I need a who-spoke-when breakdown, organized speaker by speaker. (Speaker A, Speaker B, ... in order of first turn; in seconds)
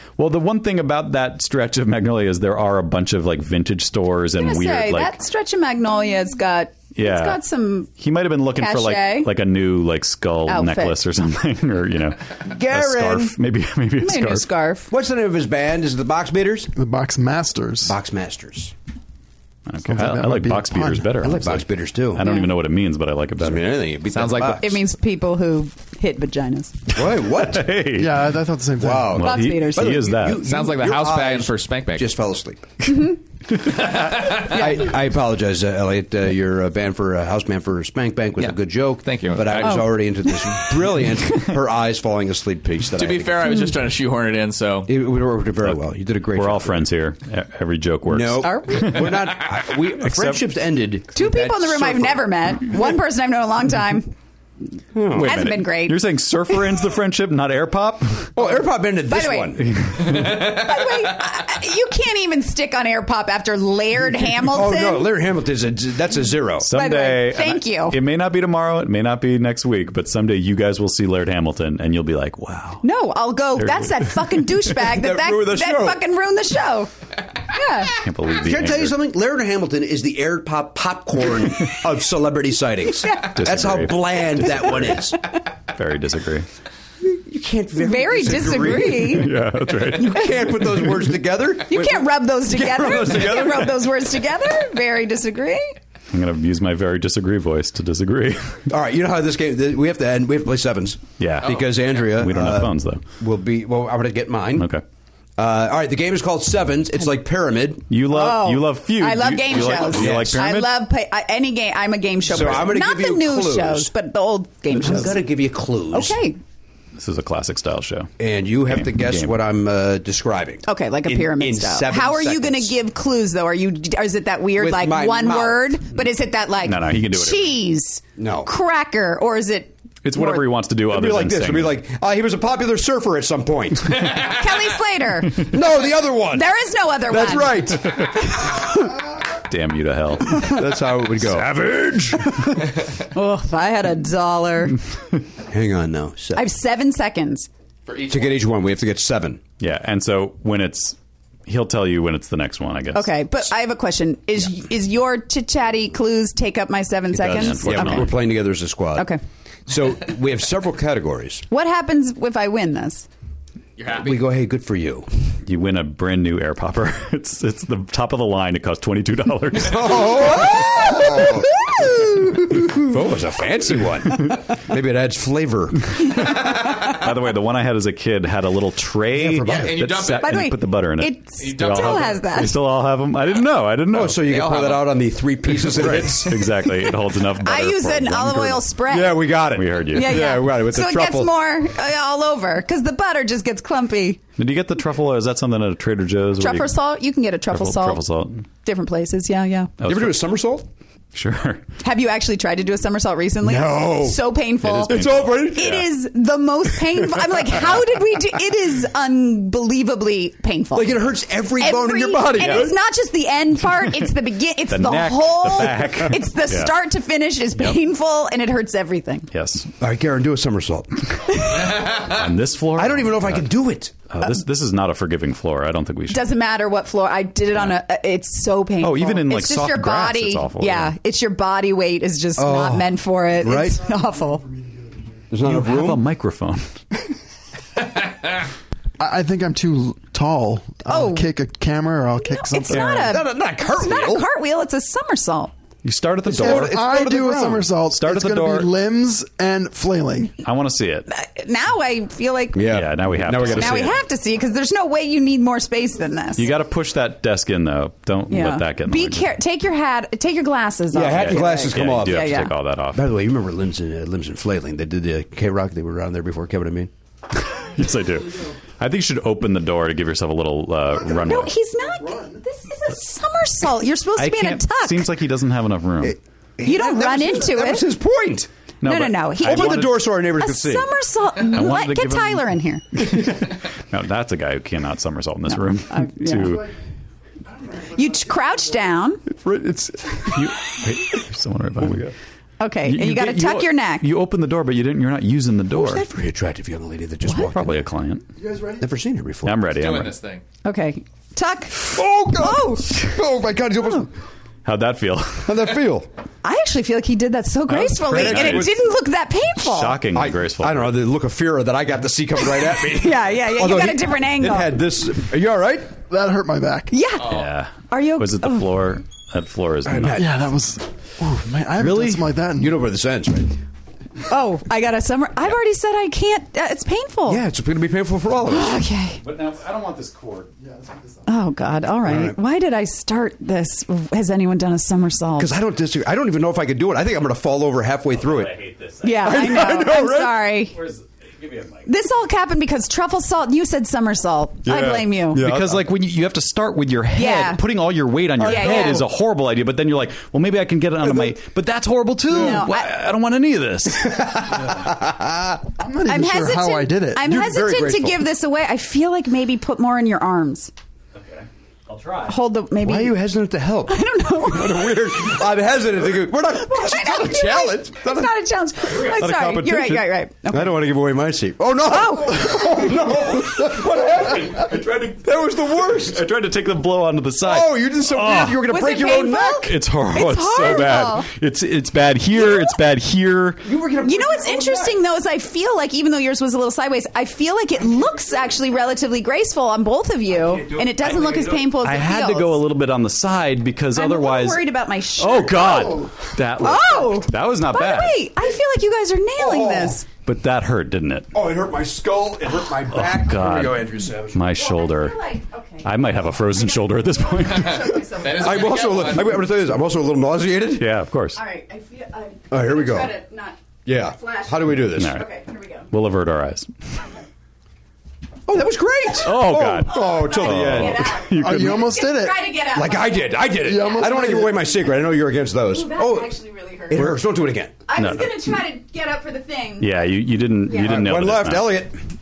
Speaker A: 0.2-5.1, 7.0-7.4, 8.0-14.5, 19.7-23.8, 27.1-28.4, 29.1-30.5, 46.3-50.4, 55.1-58.4, 59.6-60.6, 66.6-72.9, 73.6-74.6, 78.0-79.0, 83.2-85.1, 85.7-86.5, 89.0-91.1, 96.1-98.7, 101.2-103.0, 104.6-104.8, 107.9-110.7, 112.4-112.7, 117.0-118.1, 118.7-119.4, 126.6-127.5, 130.0-131.8, 139.4-140.6, 141.2-142.5, 149.6-153.2, 157.2-158.2, 165.4-171.4, 176.3-184.6, 185.7-188.7, 189.5-190.3, 194.4-196.8, 197.5-198.4, 199.8-200.2, 201.1-201.7, 204.6-205.9, 212.4-212.7, 213.9-214.1, 214.7-216.8, 219.3-219.7, 221.8-223.5, 224.1-226.3, 228.8-231.0, 235.4-236.8, 242.7-243.2, 245.8-246.8, 247.9-248.7, 250.4-251.1, 252.7-254.0, 256.4-259.3, 261.1-263.1, 267.4-271.5, 274.2-276.2, 278.8-280.1, 281.5-286.7, 290.2-292.1, 292.8-296.1, 297.3-298.2, 299.4-300.1, 304.6-305.8, 307.7-308.8, 309.6-310.9, 317.2-320.4, 321.8-322.2, 329.2-330.5, 338.1-341.9, 345.3-354.8, 361.1-362.4, 368.8-370.1, 372.5-378.7, 379.6-383.6, 391.6-398.3, 400.3-401.4, 402.9-405.2, 405.8-408.0, 410.7-411.4, 414.8-415.3, 415.9-416.7, 419.2-422.0, 428.0-428.4, 429.8-431.8
Speaker B: 4.4-7.9, 8.6-9.3, 10.5-11.0, 14.0-14.9, 22.2-22.5, 24.6-26.8, 29.2-30.0, 32.9-33.2, 39.6-40.6, 48.4-49.1, 51.1-54.1, 55.2-56.0, 59.1-65.1, 66.7-68.0, 72.8-76.9, 77.5-78.0, 83.0-83.4, 87.8-89.3, 91.7-95.7, 108.1-115.3, 115.9-116.4, 120.7-130.4, 134.1-135.6, 136.2-137.7, 143.1-144.8, 146.3-147.5, 152.9-158.2, 158.9-159.2, 161.5-163.1, 170.8-172.3, 180.2-182.6, 187.4-189.3, 189.9-194.2, 196.4-198.0, 198.6-199.7, 201.8-219.3, 221.5-221.8, 226.1-234.4, 240.9-241.3, 242.2-245.5, 251.1-252.7, 253.4-256.5, 258.3-262.5, 271.1-275.1, 276.6-277.9, 278.8-282.8, 285.9-286.6, 287.9-289.2, 292.6-294.1, 300.6-303.0, 306.4-310.0, 312.8-314.8, 316.9-317.4, 317.9-318.7, 324.3-327.4, 328.5-329.2, 331.3-335.5, 339.0-340.8, 341.9-345.5, 347.1-347.6, 348.4-349.1, 352.3-352.9, 356.1-360.7, 362.3-363.3, 363.9-365.0, 366.5-370.8, 371.8-372.9, 378.6-381.3, 384.0-392.6, 393.9-400.1, 404.5-409.1, 411.4-415.9, 419.8-424.6, 425.7-427.2, 427.9-430.1, 430.7-431.0
Speaker C: 12.5-13.4, 14.9-16.7, 17.9-18.7, 21.2-22.2, 23.4-24.7, 26.9-27.7, 28.8-32.9, 34.0-43.5, 44.9-46.9, 48.1-52.3, 54.9-55.4, 58.4-59.6, 64.5-66.7, 74.8-76.0, 78.4-85.2, 87.0-89.3, 89.8-93.8, 98.7-104.7, 105.4-107.9, 109.6-110.4, 112.3-113.9, 114.7-116.2, 118.2-122.7, 124.6-125.7, 128.2-128.5, 130.9-134.2, 135.4-136.5, 137.1-138.2, 140.4-141.6, 145.5-146.4, 148.1-149.4, 157.2-159.1, 159.7-161.4, 163.9-165.1, 169.6-171.5, 172.1-176.1, 179.1-179.8, 183.9-186.4, 188.9-191.3, 199.8-200.7, 203.4-204.2, 204.9-205.8, 210.8-212.8, 219.8-221.1, 222.8-224.0, 232.4-233.8, 235.3-236.0, 242.8-244.3, 246.3-247.7, 252.5-254.0, 260.9-266.9, 276.0-278.5, 279.4-280.9, 289.4-290.3, 295.7-297.8, 298.8-299.6, 301.9-304.1, 305.4-306.1, 308.0-308.8, 310.1-315.9, 319.9-320.3, 321.8-323.6, 327.3-328.8, 332.0-332.4, 335.4-338.6, 339.2-340.4, 344.6-345.8, 348.4-349.1, 351.0-351.4, 352.3-352.6, 354.0-355.6, 357.2-358.2, 362.8-368.3, 370.5-376.2, 377.4-379.7, 383.6-385.0, 390.5-391.6, 399.4-400.0, 401.3-404.4, 408.3-410.9, 412.5-413.2, 413.9-415.2, 418.5-421.2, 422.7-426.3, 426.9-427.8, 430.7-432.0
Speaker D: 16.8-18.0, 19.9-21.1, 27.9-29.2, 233.9-235.1, 239.0-243.0, 246.4-250.3, 271.1-272.4, 287.5-288.7, 298.4-298.9, 316.1-316.9, 320.1-322.8, 330.6-331.2, 355.8-357.3, 421.3-422.5, 423.6-424.6
Speaker E: 24.1-24.8, 30.4-32.1, 33.8-34.5, 39.0-39.9, 43.0-44.9, 60.1-60.5, 101.4-101.7, 147.9-148.4, 163.8-164.2, 179.5-180.3, 181.4-182.2, 184.2-184.9, 299.7-300.4, 317.2-317.5, 407.5-409.5